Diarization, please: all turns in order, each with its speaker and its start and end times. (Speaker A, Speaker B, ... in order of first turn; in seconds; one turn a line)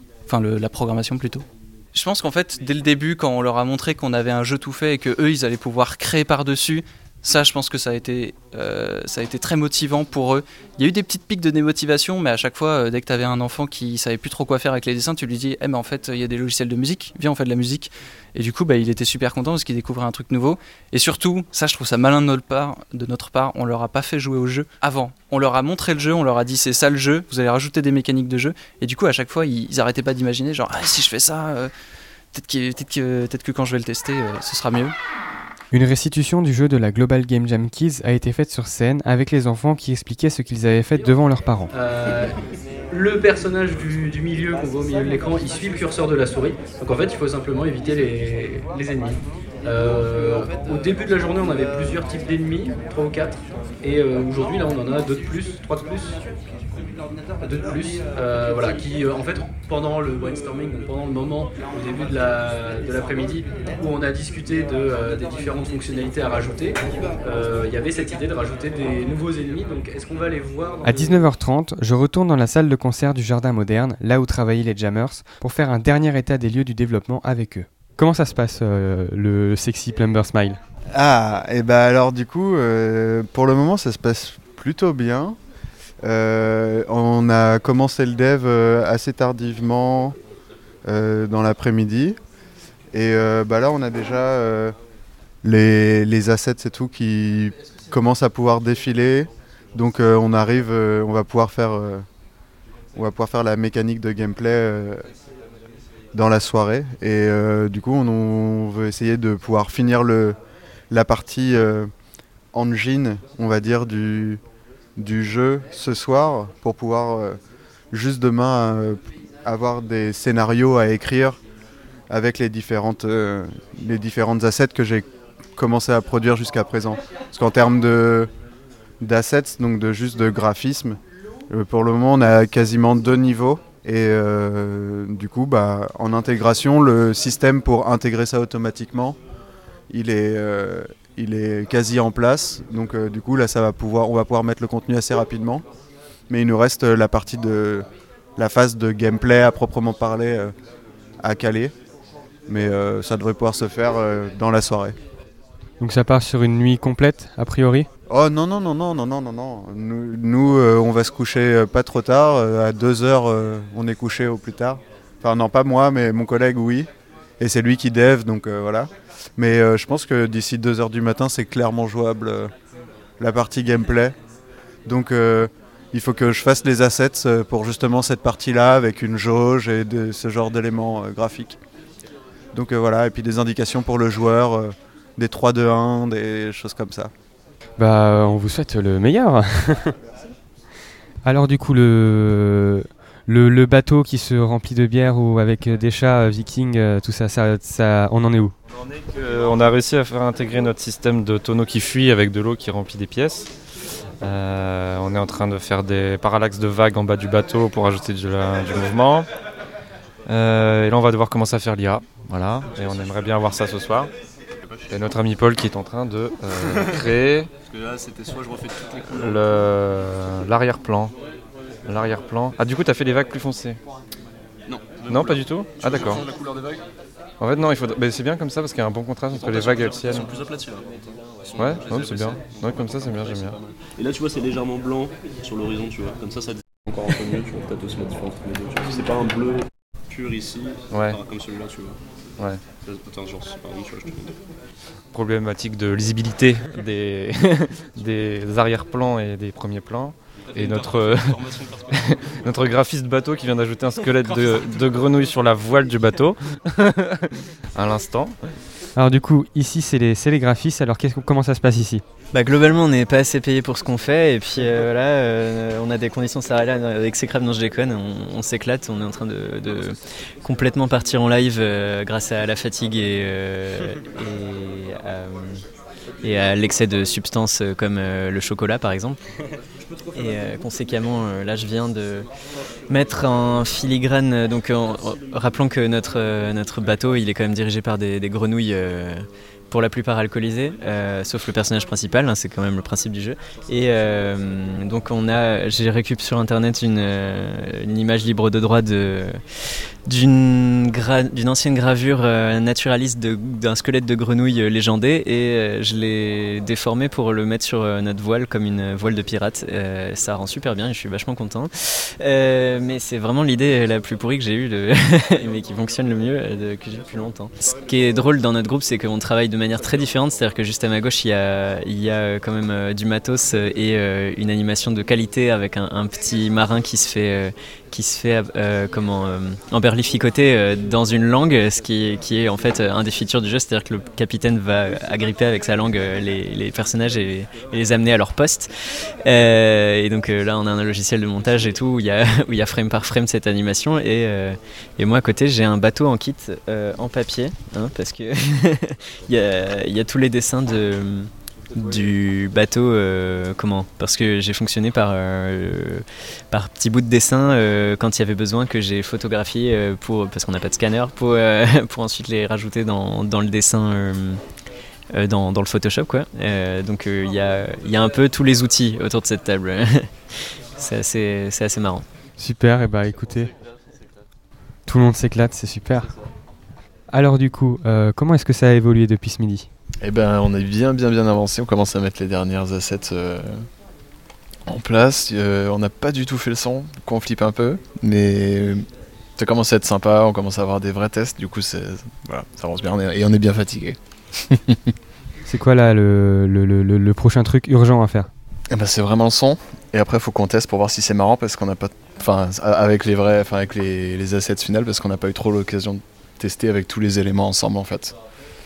Speaker A: 0.3-31.7
Speaker A: 32.3-35.0
Speaker B: 35.7-41.7
Speaker C: 41.7-42.4
Speaker C: 42.9-56.2
Speaker C: 57.4-71.3
Speaker B: 70.8-80.6
Speaker D: 80.9-85.4
Speaker D: 86.0-90.2
Speaker D: 90.9-92.2
Speaker D: 92.9-94.8
Speaker D: 95.4-102.0
Speaker D: 103.0-105.0
Speaker D: 106.1-110.4
Speaker D: 110.9-111.9
Speaker D: 112.5-114.4
Speaker D: 115.0-117.4
Speaker D: 117.9-121.4
Speaker D: 122.1-128.3
Speaker D: 129.0-131.0
Speaker D: 131.5-139.2
Speaker D: 139.9-145.6
Speaker D: 146.3-150.5
Speaker D: 151.2-151.7
Speaker D: 152.5-154.9
Speaker B: 155.8-157.9
Speaker D: 158.1-166.9
Speaker D: 167.4-172.5
Speaker D: 173.2-174.2
Speaker D: 174.9-181.6
Speaker D: 182.5-187.1
Speaker B: 187.8-189.9
Speaker B: 191.2-198.5
Speaker E: 198.9-203.5
Speaker E: 204.2-209.3
Speaker E: 210.3-214.1
Speaker E: 214.9-217.5
Speaker F: 217.8-219.1
Speaker E: 219.1-221.1
Speaker E: 221.9-223.8
Speaker F: 224.7-226.8
Speaker E: 225.1-226.2
Speaker E: 227.4-230.3
Speaker F: 229.4-242.0
Speaker E: 231.6-233.6
Speaker E: 240.9-241.2
Speaker F: 242.9-244.3
Speaker E: 245.1-257.2
Speaker F: 250.6-251.7
Speaker E: 257.8-258.3
Speaker B: 259.0-262.0
Speaker G: 262.3-275.6
Speaker G: 276.2-279.2
Speaker G: 280.1-282.3
Speaker G: 282.9-299.4
Speaker G: 300.1-338.7
Speaker G: 339.2-364.4
Speaker G: 365.1-372.1
Speaker B: 372.4-373.5
Speaker B: 374.9-376.1
Speaker B: 377.1-379.7
Speaker H: 380.0-383.7
Speaker H: 384.7-388.9
Speaker H: 389.4-394.8
Speaker B: 395.5-398.3
Speaker H: 398.7-408.2